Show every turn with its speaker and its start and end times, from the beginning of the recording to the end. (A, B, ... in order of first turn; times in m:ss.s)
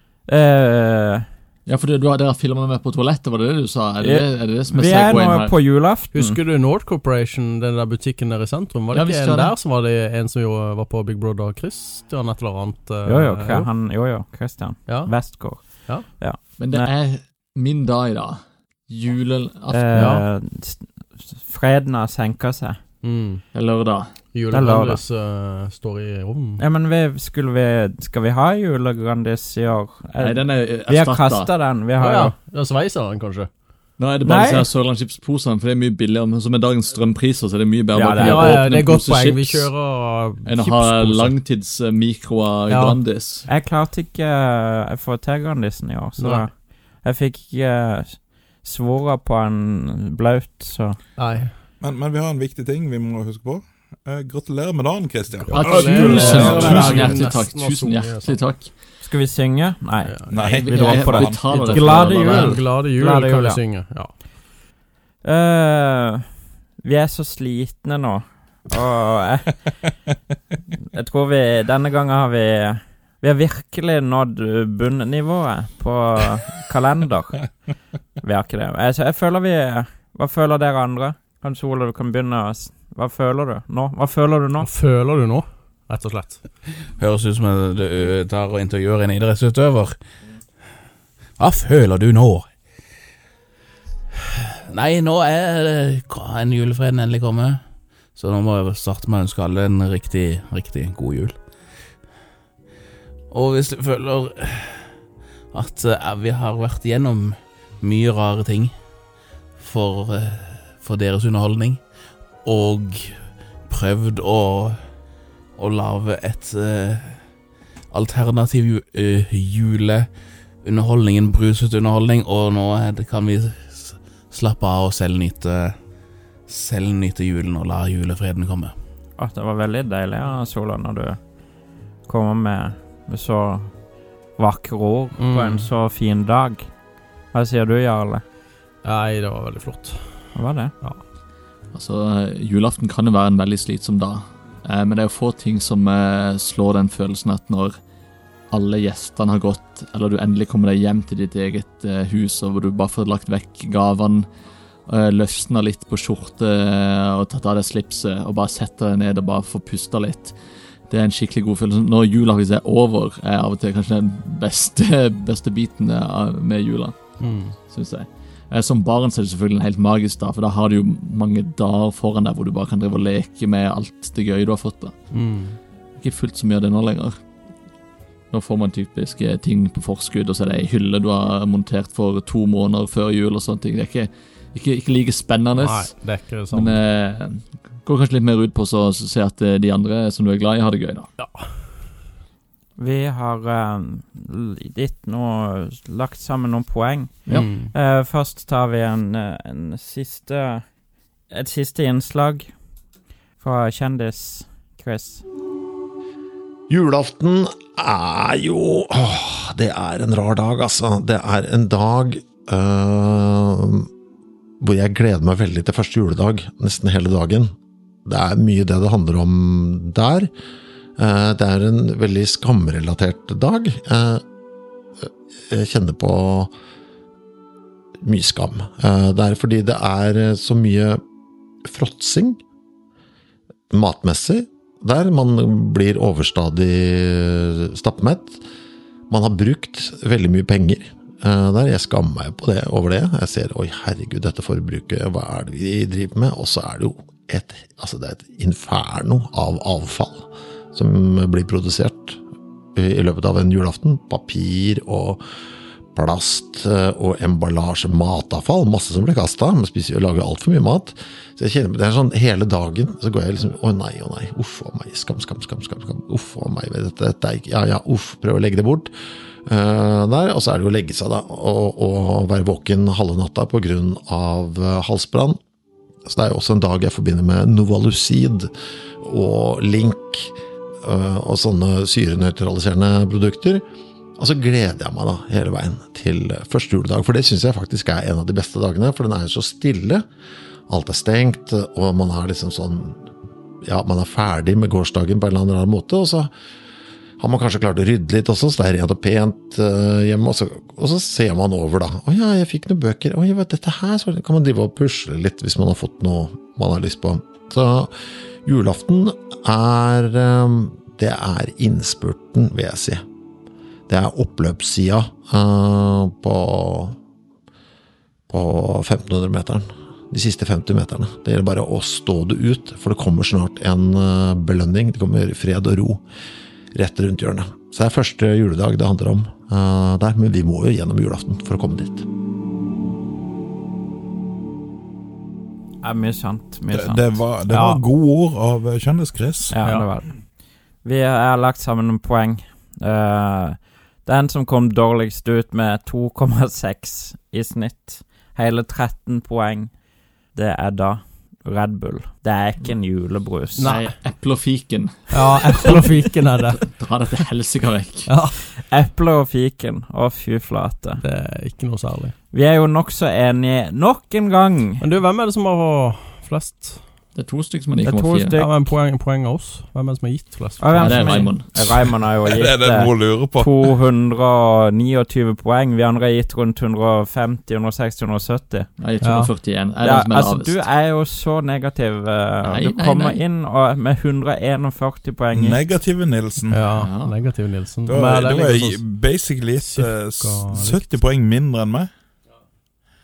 0:00.2-0:01.3 A
0:01.6-0:05.6 B
0:04.0-0:06.4 A
0:06.1-0:13.7 C
0:08.9-0:09.5 B
0:13.0-0:16.9 A
0:14.8-0:16.1 C
0:16.6-0:20.1 B
0:19.7-0:22.8 A
0:19.9-0:20.2 C
0:23.0-0:23.4 C
0:23.5-0:24.1 B
0:24.3-0:26.6 C
0:24.5-0:25.0 A
0:26.6-0:32.3 A
0:30.2-0:31.5 B
0:32.0-0:33.5 C
0:34.0-0:39.7 B
0:34.2-0:34.6 A
0:37.9-0:38.6 A
0:38.2-0:41.4 C
0:40.4-0:43.5 B
0:42.7-0:43.0 C
0:43.5-0:51.0 A
0:46.2-0:46.5 C
0:51.2-0:51.5 C
0:51.8-0:57.1 D
0:55.5-0:58.4 C
0:55.5-0:58.7 B
0:56.0-0:57.2 A
0:59.0-1:03.6 A
1:00.0-1:00.4 C
1:00.3-1:01.5 D
1:00.4-1:02.6 B
1:00.9-1:04.2 C
1:05.2-1:09.7 A
1:10.9-1:17.5 A
1:18.2-1:24.7 A
1:24.6-1:26.7 C
1:26.9-1:30.0 E
1:31.4-1:32.5 E
1:34.7-1:37.6 E
1:38.1-1:41.4 E
1:43.3-1:44.9 E
1:45.5-1:48.7 E
1:49.6-1:51.8 E
1:52.4-1:54.8 E
1:55.6-1:57.2 E
1:57.9-2:00.1 E
2:00.6-2:05.8 E
2:06.5-2:08.8 E
2:09.2-2:11.2 A
2:12.0-2:13.7 A
2:14.3-2:16.7 A
2:15.2-2:15.7 C
2:17.3-2:18.2 A
2:18.8-2:20.0 C
2:20.3-2:20.7 A
2:21.7-2:27.7 B
2:28.5-2:34.3 B
2:34.9-2:40.3 B
2:40.9-2:54.9 B
2:47.2-2:47.5 C
2:55.1-2:55.6 C
2:56.0-2:57.2 B
2:58.3-3:05.9 B
3:05.6-3:06.8 C
3:06.5-3:11.1 B
3:11.2-3:11.5 C
3:12.8-3:20.6 A
3:17.3-3:17.7 C
3:21.3-3:22.5 A
3:23.4-3:25.2 A
3:26.7-3:33.9 F
3:34.6-3:37.5 F
3:38.0-3:40.3 F
3:41.0-3:44.2 F
3:45.0-3:46.5 F
3:48.0-3:51.0 F
3:51.7-3:52.4 F
3:53.7-3:58.4 F
3:59.1-4:12.2 F
4:12.7-4:15.2 F
4:15.9-4:28.9 F
4:29.5-4:35.4 F
4:36.0-4:38.5 F
4:39.0-4:43.6 F
4:44.2-4:50.0 F
4:50.7-4:53.0 F
4:53.6-4:56.3 F
4:57.2-5:07.9 F
5:08.4-5:13.0 F
5:13.9-5:17.0 F
5:18.3-5:26.0 F
5:26.7-5:32.0 F
5:35.8-5:37.2 A
5:36.7-5:39.6 D
5:37.5-5:37.8 C
5:39.5-5:49.7 A
5:39.6-5:39.9 C
5:50.3-5:53.7 A
5:53.6-5:53.9 C
5:53.6-5:55.9 B
5:55.1-5:56.6 C
5:56.5-5:58.1 B
5:58.1-5:58.4 C
5:58.5-6:01.0 A
6:01.0-6:02.1 C
6:02.3-6:04.8 A
6:04.8-6:06.8 C
6:07.1-6:08.3 B
6:07.8-6:08.6 A
6:08.4-6:11.3 C
6:10.6-6:18.7 A
6:10.8-6:11.6 B
6:12.2-6:13.5 D
6:18.8-6:20.6 B
6:19.0-6:19.3 C
6:19.8-6:25.6 A
6:22.4-6:23.2 B
6:25.3-6:26.6 D
6:26.5-6:28.8 C
6:26.7-6:27.2 B
6:27.8-6:31.9 D
6:29.6-6:31.0 C